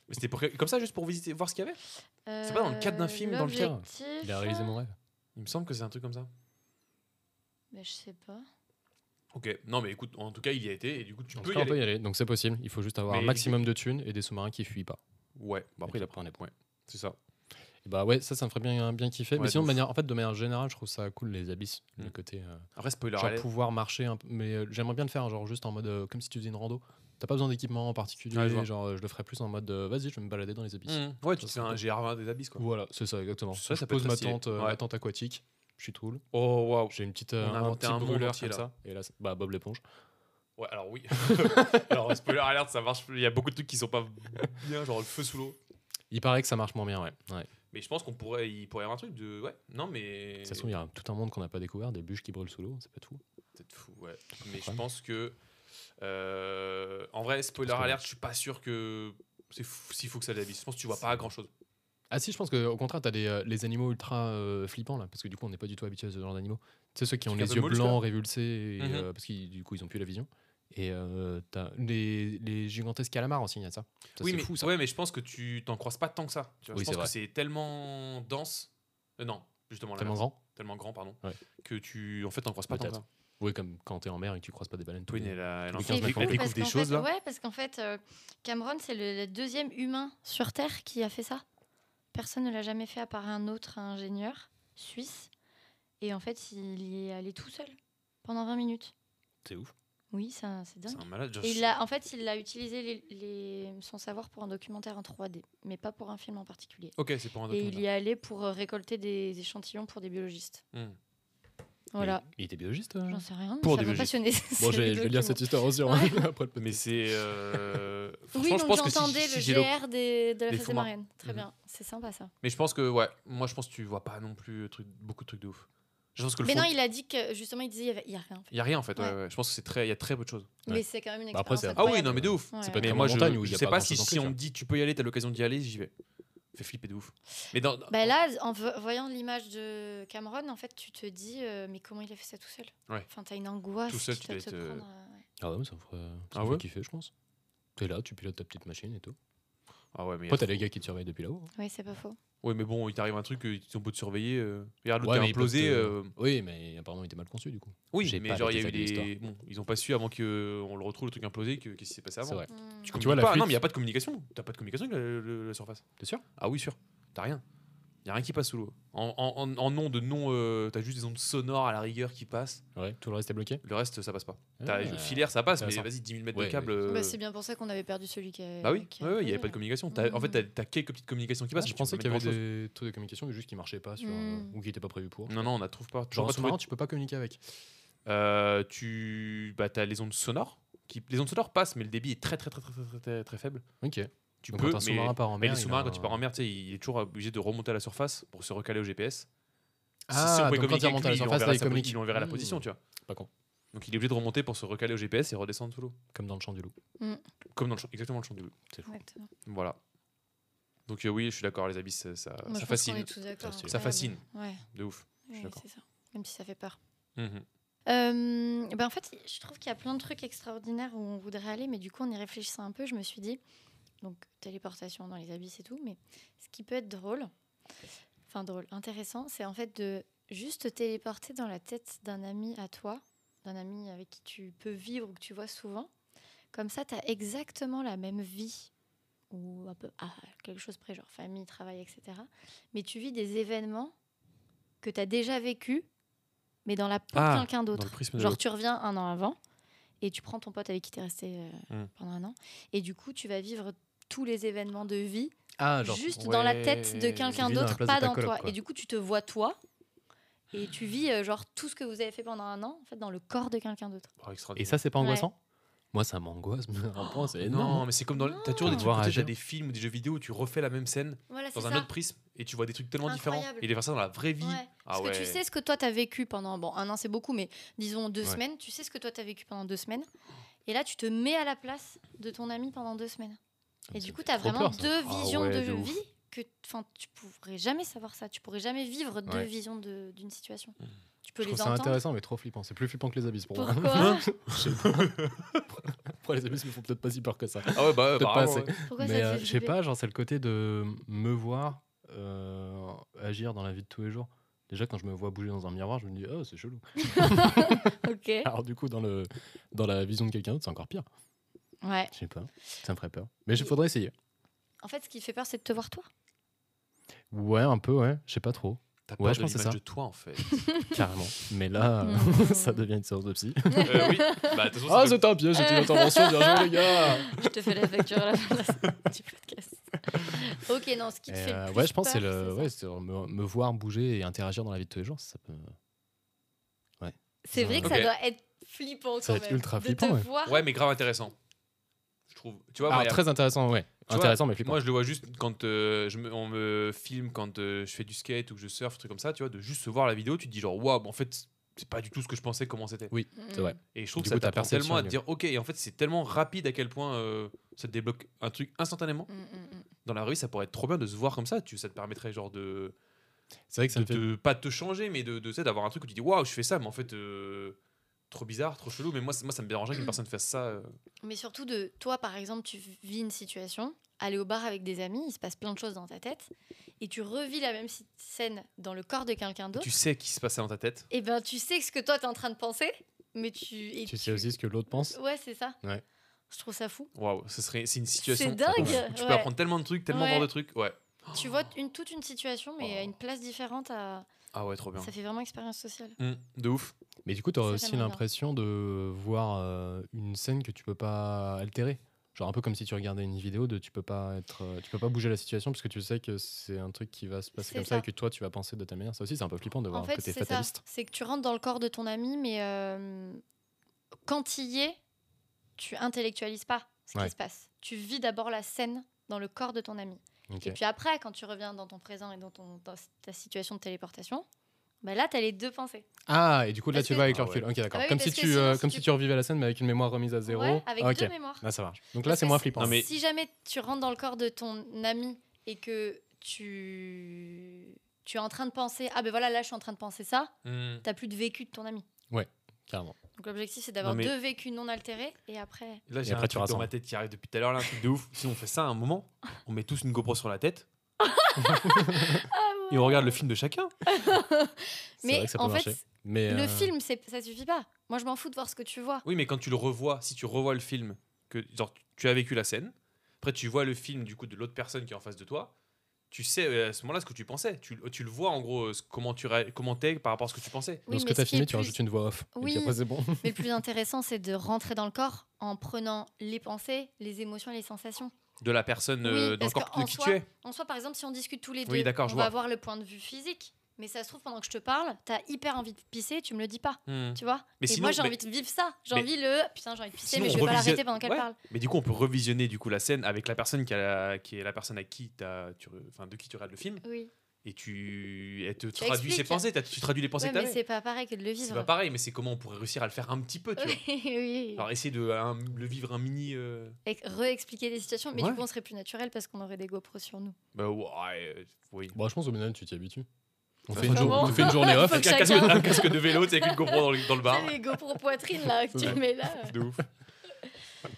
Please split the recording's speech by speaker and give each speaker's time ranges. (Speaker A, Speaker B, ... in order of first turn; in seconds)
Speaker A: 0.1-1.8, 2.5-3.7, 5.4-6.3, 9.3-11.8, 13.1-13.6, 15.4-17.2, 19.4-19.8, 22.8-23.5, 28.3-28.7, 30.9-32.6, 33.5-34.8, 36.3-38.7, 40.6-45.6, 47.7-50.7, 53.6-55.4, 56.0-61.5, 67.3-68.0, 68.8-69.1, 74.2-83.0, 85.1-87.1, 100.9-101.8, 107.0-107.8, 113.6-114.1, 116.6-119.8, 120.5-121.4, 122.4-126.7, 128.5-130.5, 131.8-135.9, 136.6-138.1, 143.9-144.8, 146.3-146.6, 149.9-150.6, 152.4-156.1, 157.9-165.8, 166.4-167.4, 168.1-172.6, 173.6-177.2, 178.6-182.4, 185.3-186.6, 188.1-193.6, 194.4-199.3, 200.1-202.8, 203.7-206.0, 207.5-208.6, 209.5-209.8, 210.9-215.2, 217.2-217.4, 247.2-248.4, 256.2-257.4, 264.2-264.8, 267.4-275.4, 285.0-286.0, 293.9-295.6, 297.7-298.7, 319.1-320.7, 323.8-325.3, 337.8-338.1, 340.5-341.4, 342.3-343.2, 344.1-353.1, 353.9-359.3, 360.1-362.9, 363.9-367.8, 368.3-370.9, 379.8-381.1, 387.1-391.6, 394.5-395.1, 396.2-396.9, 427.3-427.6, 432.8-433.1, 440.6-441.1, 444.0-444.3, 446.1-450.9, 452.9-453.9, 459.2-465.7, 466.3-471.1, 478.6-480.5, 481.9-482.5, 487.1-488.4, 490.2-497.0, 497.6-500.8, 501.6-504.0, 504.8-507.0, 508.4-508.6, 510.7-512.2, 513.9-518.0, 519.0-520.1
Speaker B: 2.3-4.8, 7.7-8.5, 85.8-91.4, 92.1-95.3, 96.0-98.9, 100.1-107.0, 107.5-110.6, 111.9-112.2, 113.1-116.2, 118.3-122.3, 126.4-129.2, 130.7-133.0, 137.9-145.2, 151.6-152.2, 162.5-162.9, 176.9-180.5, 184.0-184.6, 208.9-209.3, 212.5-214.6, 215.3-216.8, 217.9-223.4, 224.0-227.3, 228.3-235.9, 236.5-238.7, 239.3-243.9, 244.8-245.9, 246.7-249.4, 250.0-259.6, 260.5-264.1, 265.0-265.3, 268.2-268.9, 271.3-271.9, 273.1-273.7, 274.4-280.1, 280.7-283.4, 283.9-292.0, 293.5-294.3, 298.9-299.7, 307.0-308.5, 311.8-312.1, 314.8-316.1, 320.5-321.0, 322.0-322.8, 323.7-324.6, 325.6-332.7, 337.4-340.7, 353.4-353.8, 359.3-359.9, 371.2-376.5, 377.0-379.9, 381.1-385.8, 386.5-387.1, 388.2-389.5, 390.1-390.5, 391.3-394.3, 395.0-396.2, 397.6-398.2, 407.6-408.1, 409.9-413.4, 414.3-415.0, 415.8-424.5, 425.0-426.1, 426.9-427.4, 427.9-429.1, 430.5-431.6, 432.2-440.5, 441.0-442.1, 443.4-446.0, 451.2-453.4, 454.1-459.2, 471.1-472.0, 472.5-478.3, 479.2-491.6, 497.0-497.3, 499.0-499.7, 500.4-501.9, 503.8-504.9, 507.1-510.6, 513.9-519.8
Speaker C: 3.5-5.0, 11.4-15.0, 15.8-16.4, 17.8-31.8, 32.6-36.2, 36.9-39.8, 41.2-42.0, 46.1-47.5, 50.5-53.2, 57.6-58.0, 62.1-74.7, 76.7-77.1, 80.0-80.4, 82.7-86.5, 99.4-99.7, 112.0-113.2, 114.6-117.8, 130.7-134.4, 145.4-147.1, 147.8-149.2, 150.3-151.5, 155.0-159.1, 162.2-163.6, 166.0-166.2, 172.8-173.6, 174.6-176.8, 181.6-185.5, 186.1-187.4, 193.8-196.2, 200.1-203.3, 206.1-206.7, 213.4-213.8, 255.6-256.2, 257.4-258.6, 264.6-265.4, 265.9-267.9, 268.6-269.3, 283.9-285.0, 291.4-307.9, 308.4-311.1, 312.1-314.1, 317.3-319.8, 320.9-324.2, 324.9-327.9, 331.3-335.8, 337.0-338.1, 339.2-340.3, 342.9-344.8, 353.1-355.2, 363.7-364.3, 384.1-385.2, 388.8-389.0, 397.2-410.8, 420.5-420.8, 426.3-433.0, 442.3-443.2, 446.2-446.9, 451.6-452.4, 455.2-456.9, 471.1-473.7, 512.1-513.3, 513.9-516.1